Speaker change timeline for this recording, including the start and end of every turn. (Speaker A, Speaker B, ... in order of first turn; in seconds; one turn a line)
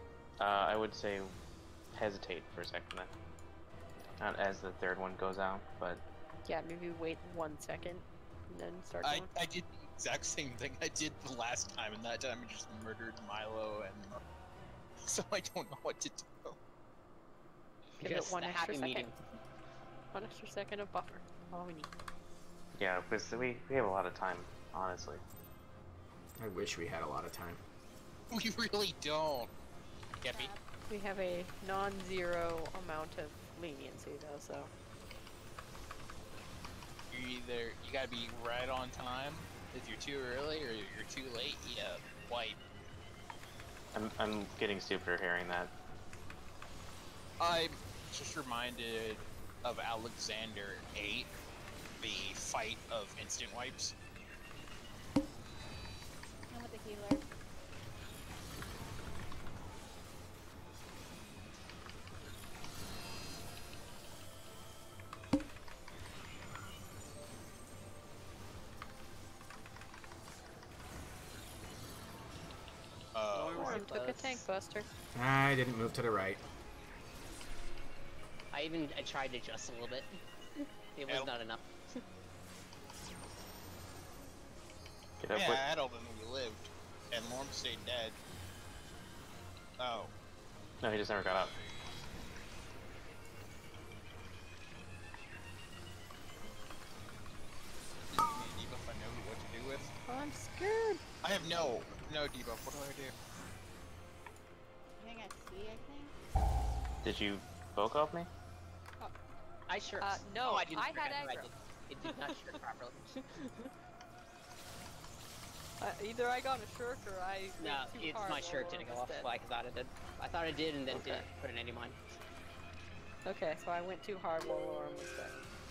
Speaker A: 0.4-1.4
Speaker A: 1.9-3.1
Speaker A: 4.2-6.0
Speaker B: 6.5-9.3
Speaker C: 9.0-14.2
Speaker C: 15.1-16.6
Speaker B: 18.0-19.1
Speaker D: 18.0-19.2
Speaker B: 20.1-21.9
Speaker A: 22.8-25.2
Speaker E: 26.4-27.6
Speaker C: 28.3-29.5
Speaker C: 30.2-30.5
Speaker F: 30.3-30.6
Speaker B: 30.9-34.7
Speaker C: 37.1-42.6
Speaker A: 43.9-45.7
Speaker C: 47.4-51.3
Speaker C: 52.0-54.0
Speaker F: 56.5-57.2
Speaker C: 73.1-73.8
Speaker D: 73.3-74.5
Speaker B: 73.6-74.9
Speaker E: 75.2-76.4
Speaker D: 78.5-82.0
Speaker A: 85.2-85.6
Speaker C: 85.3-88.2
Speaker C: 89.8-90.1
Speaker A: 90.8-91.5
Speaker C: 98.1-99.9
Speaker B: 100.1-101.0
Speaker C: 101.2-103.2
Speaker F: 105.0-106.1
Speaker A: 107.0-108.3
Speaker D: 109.7-113.1
Speaker B: 110.0-111.5
Speaker B: 112.0-112.6
Speaker B: 113.2-113.7
Speaker B: 115.8-119.3
Speaker D: 117.6-122.0
Speaker A: 120.9-121.2
Speaker B: 123.2-125.5